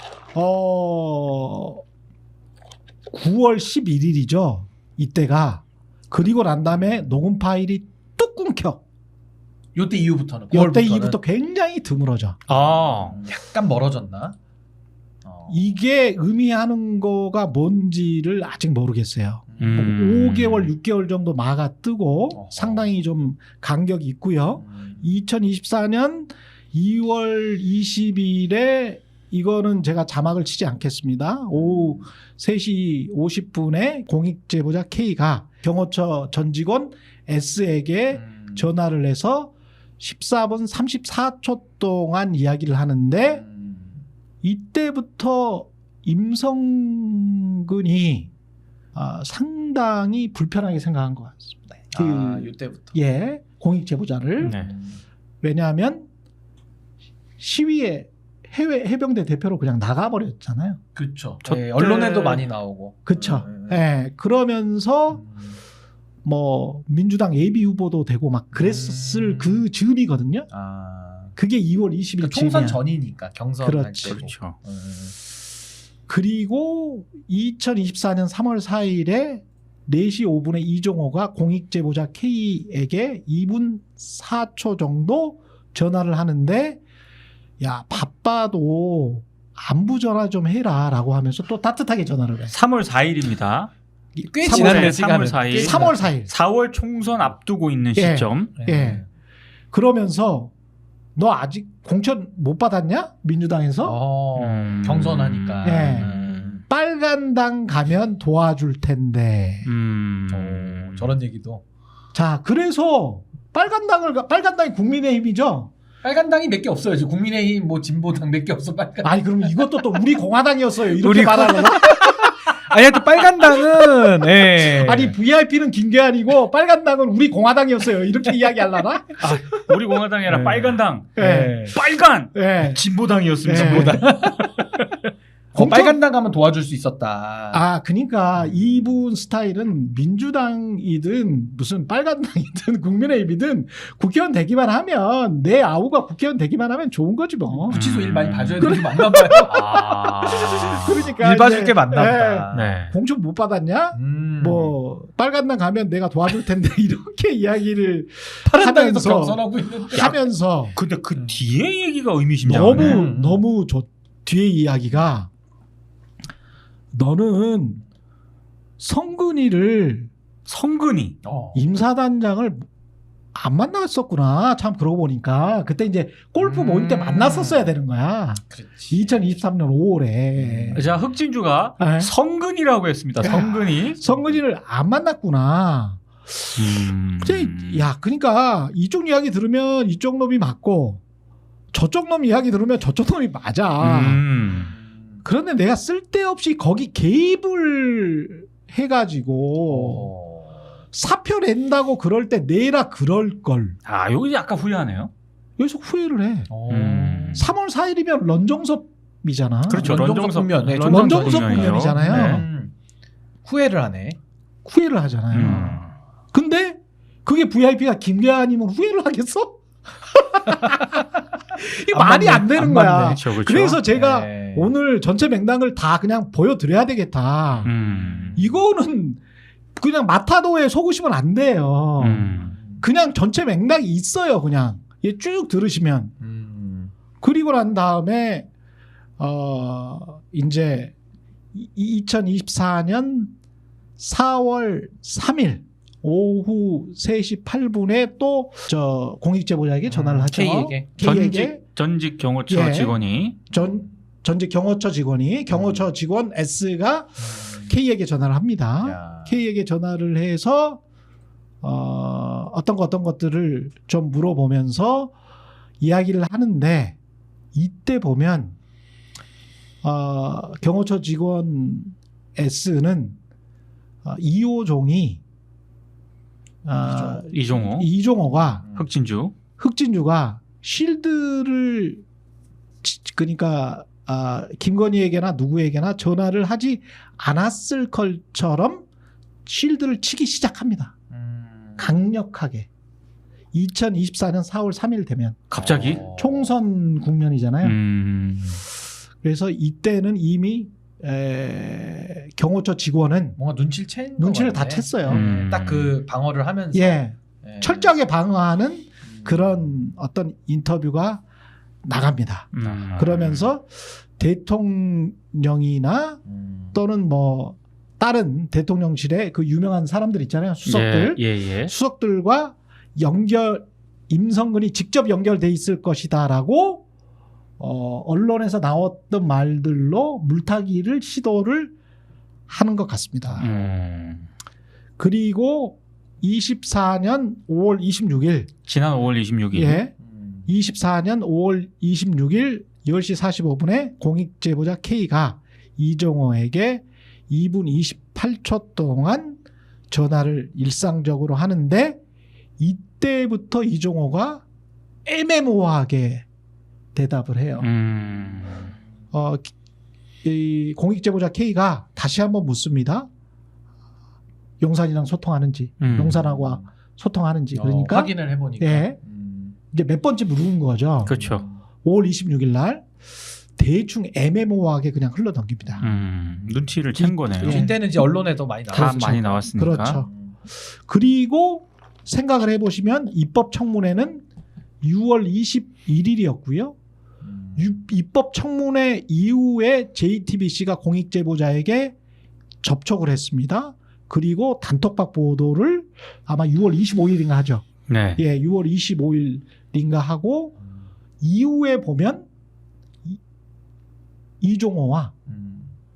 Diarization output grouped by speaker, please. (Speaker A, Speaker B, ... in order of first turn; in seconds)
Speaker A: 0.3-1.8, 3.1-8.8, 10.5-12.4, 15.5-43.4, 44.4-48.3, 48.9-54.5, 55.4-56.1, 57.4-60.8, 61.8-62.4, 63.0-65.2, 66.2-70.5, 71.3-72.8, 73.6-74.2, 76.1-86.8, 87.6-92.5, 94.2-96.3, 98.0-99.0, 99.7-100.5, 101.2-104.0, 105.6-109.7, 112.1-115.7, 119.0-122.3, 124.6-129.7, 131.2-131.6, 132.3-132.8, 133.4-134.0, 135.5-136.0, 137.5-147.8, 148.6-160.8, 162.4-165.3, 166.9-167.8, 168.8-170.1, 171.5-172.7, 173.3-180.8, 181.8-182.1, 183.2-191.0, 191.7-194.2, 195.2-200.1, 200.9-203.8, 205.6-206.5, 207.3-210.0, 210.8-212.4, 214.6-219.6, 220.1-220.9, 221.5-227.7, 228.3-229.2, 229.8-236.1, 237.2-238.5, 239.2-240.9, 241.5-243.3, 244.0-251.6, 252.5-252.9, 253.5-260.8, 261.6-265.1, 265.8-266.9, 267.5-268.5, 269.8-273.1, 274.0-275.2, 276.6-278.6, 279.6-282.0, 282.8-288.8, 289.4-290.9, 291.8-292.7, 293.5-297.8, 299.2-303.4, 304.2-305.2, 306.7-311.2, 311.8-316.2, 316.7-326.8, 327.6-331.7, 332.5-333.5, 335.0-338.5, 339.5-339.9, 340.5-349.4, 349.9-352.0, 352.6-354.4, 355.1-356.2, 356.9-357.7, 359.1-359.5, 360.2-363.1, 364.6-369.0, 369.7-371.1, 371.8-372.9, 373.6-375.9, 376.9-378.1, 378.7-380.1, 380.9-384.2, 384.8-386.7, 387.6-391.9, 392.6-397.6, 398.2-400.5, 401.2-402.3, 404.4-405.1
Speaker B: 9.7-11.2, 12.5-14.3, 15.2-15.7, 19.5-19.8, 22.3-22.9, 24.6-25.0, 31.5-32.1, 38.1-38.7, 43.2-44.0, 51.9-53.0, 54.4-55.0, 61.0-63.8, 65.1-65.6, 68.5-69.6, 70.5-71.3, 72.2-75.2, 94.3-96.1, 98.5-99.1, 103.8-106.6, 110.3-111.6, 116.0-119.8, 121.0-125.2, 130.3-131.8, 133.5-134.5, 135.5-137.6, 138.4-138.8, 147.5-152.8, 153.9-154.8, 158.4-160.1, 162.6-163.4, 171.2-171.7, 176.4-177.7, 178.5-179.3, 180.4-180.9, 184.0-184.4, 194.4-195.2, 199.7-200.6, 206.5-207.5, 209.7-212.7, 213.4-214.2, 221.9-223.2, 223.8-224.7, 227.6-228.6, 232.3-232.8, 236.2-236.9, 249.9-250.9, 253.5-253.9, 255.5-255.9, 257.2-257.7, 258.8-259.4, 276.9-277.2, 278.2-278.9, 291.1-291.9, 295.6-296.5, 303.4-307.9, 309.0-309.7, 316.3-316.8, 340.0-340.5, 366.0-366.7, 367.5-369.6, 371.1-371.6, 375.6-376.6, 377.4-380.4, 387.2-387.8, 405.3-405.7
Speaker C: 12.5-13.2, 19.6-20.7, 54.4-54.7, 74.0-74.5, 92.5-93.7, 94.5-98.5, 104.3-106.6, 109.6-111.1, 129.2-131.2, 131.7-134.8, 147.7-148.8, 149.4-150.8, 152.5-152.9, 160.7-163.0, 170.4-171.2, 180.7-184.0, 186.6-187.8, 193.8-194.7, 203.8-205.1, 206.7-207.5, 209.7-212.4, 215.3-215.9, 222.6-223.8, 227.6-228.4, 232.0-232.5, 251.0-253.4, 277.3-277.9, 278.7-279.3, 295.5-296.0, 297.6-298.6, 305.1-305.9, 312.5-313.5, 320.6-321.7, 333.4-334.3, 338.7-339.8, 357.6-358.7, 365.8-366.2, 371.0-371.4, 375.8-377.6, 378.7-380.0, 397.9-398.2